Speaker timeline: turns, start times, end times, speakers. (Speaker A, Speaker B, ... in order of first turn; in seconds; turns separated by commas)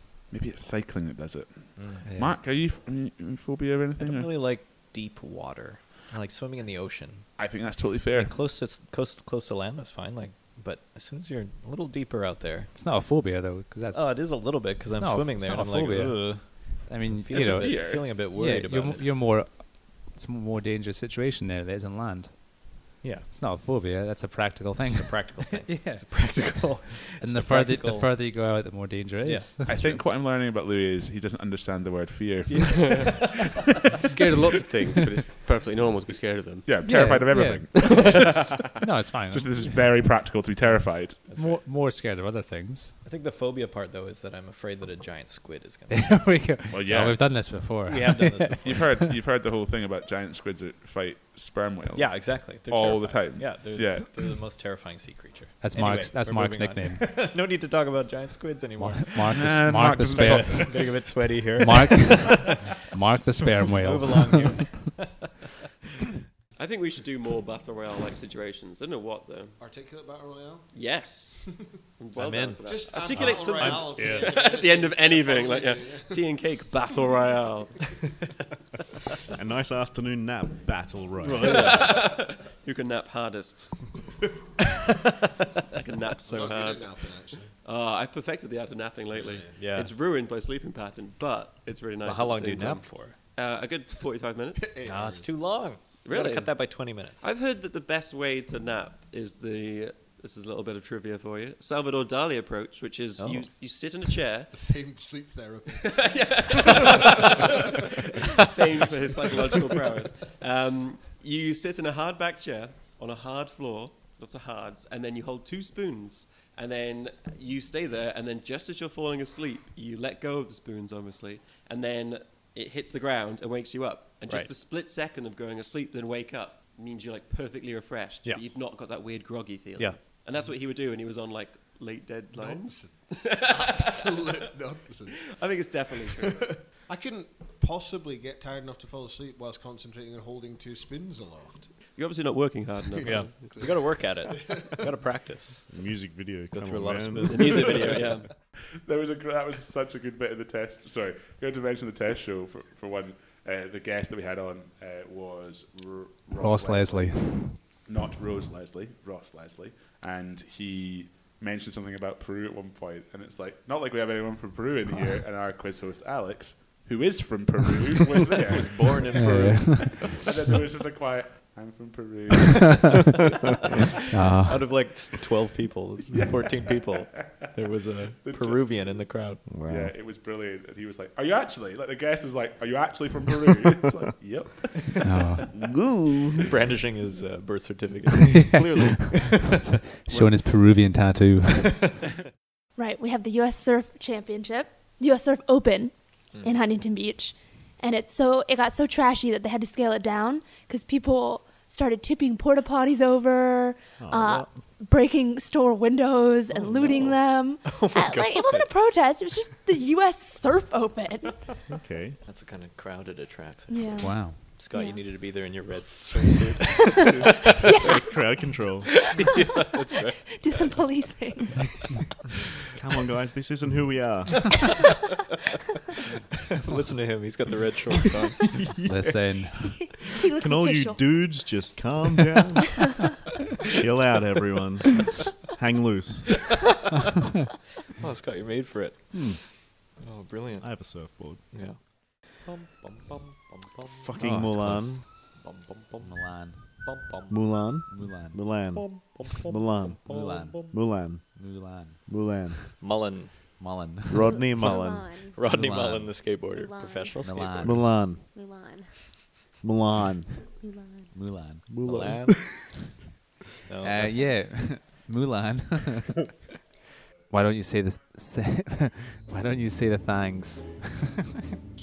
Speaker A: 0.3-4.3, Speaker B: 1.8-2.0, Speaker C: 2.0-2.4, Speaker B: 4.0-7.3, Speaker A: 7.4-8.3, Speaker B: 8.1-12.7, Speaker C: 12.7-14.3, Speaker B: 13.9-19.2, Speaker C: 14.9-29.9, Speaker A: 17.3-18.2, Speaker B: 23.0-23.3, Speaker B: 24.8-28.2, Speaker B: 29.2-29.9, Speaker A: 29.6-33.3, Speaker B: 32.5-33.9, Speaker D: 32.7-33.1, Speaker D: 34.0-36.7, Speaker A: 36.6-41.2, Speaker C: 36.8-38.0, Speaker C: 38.8-39.6, Speaker B: 41.3-41.6, Speaker C: 41.4-43.0, Speaker B: 43.0-46.5, Speaker C: 45.9-48.9, Speaker A: 46.7-47.3, Speaker B: 47.8-48.9, Speaker A: 48.6-54.3, Speaker B: 51.9-59.1, Speaker C: 55.6-57.1, Speaker C: 58.8-60.8, Speaker A: 59.3-61.1, Speaker B: 60.1-65.3, Speaker C: 61.6-64.6, Speaker D: 66.5-69.6, Speaker E: 69.6-70.7, Speaker D: 70.7-77.9, Speaker B: 72.2-72.6, Speaker E: 72.7-76.1, Speaker B: 73.6-73.8, Speaker F: 74.0-74.3, Speaker F: 79.3-81.5, Speaker D: 81.2-84.0, Speaker D: 85.7-94.7, Speaker E: 86.4-87.5, Speaker B: 89.5-89.9, Speaker B: 92.0-93.2, Speaker E: 94.5-95.5, Speaker B: 94.8-97.2, Speaker D: 96.0-96.7, Speaker D: 97.2-104.6, Speaker B: 103.2-103.4, Speaker E: 104.5-105.9, Speaker D: 105.7-136.6, Speaker E: 132.5-132.9, Speaker E: 133.5-135.1, Speaker E: 136.2-141.7, Speaker D: 141.8-143.6, Speaker B: 143.1-145.7, Speaker E: 144.3-144.7, Speaker F: 145.7-148.1, Speaker B: 146.5-148.0, Speaker D: 147.3-148.3, Speaker A: 148.8-173.0, Speaker C: 156.4-157.6, Speaker B: 168.4-170.2, Speaker C: 169.1-170.1, Speaker C: 174.1-174.7, Speaker B: 174.4-179.5, Speaker A: 178.2-179.1, Speaker F: 179.5-179.9, Speaker A: 179.6-186.1, Speaker C: 185.0-185.5, Speaker B: 186.5-188.4, Speaker C: 188.3-191.9, Speaker B: 189.1-189.6, Speaker G: 192.8-211.5, Speaker F: 204.0-204.7, Speaker B: 206.5-208.7, Speaker F: 211.8-212.2, Speaker B: 212.2-217.5, Speaker G: 213.7-215.1, Speaker C: 214.0-214.4, Speaker G: 216.6-222.2, Speaker F: 217.7-219.0, Speaker B: 219.7-220.7, Speaker F: 222.7-224.5, Speaker B: 226.6-228.3, Speaker G: 227.9-228.2, Speaker C: 228.8-229.8, Speaker B: 229.0-229.5, Speaker G: 229.6-232.2, Speaker F: 230.3-232.8, Speaker F: 233.7-236.3, Speaker B: 238.0-239.3, Speaker F: 239.1-239.4, Speaker B: 240.0-240.9, Speaker F: 240.6-241.4, Speaker B: 241.5-244.1, Speaker F: 243.9-245.1, Speaker C: 244.2-245.3, Speaker B: 245.4-247.5, Speaker C: 246.0-246.9, Speaker F: 247.3-248.9, Speaker C: 247.8-248.4, Speaker B: 248.7-250.7, Speaker F: 249.5-250.1, Speaker C: 250.0-252.6, Speaker F: 250.7-251.4, Speaker F: 252.0-252.7, Speaker B: 252.8-253.8, Speaker C: 253.6-254.5, Speaker F: 254.1-255.1, Speaker H: 254.1-255.4, Speaker B: 255.3-257.8, Speaker C: 255.4-256.3, Speaker H: 256.5-259.1, Speaker C: 257.2-258.0, Speaker F: 257.6-258.2, Speaker F: 259.6-260.3, Speaker H: 260.6-261.1, Speaker C: 261.1-261.7, Speaker B: 261.6-262.4, Speaker F: 261.7-262.4, Speaker B: 263.6-264.4, Speaker C: 263.8-266.3, Speaker C: 267.3-271.3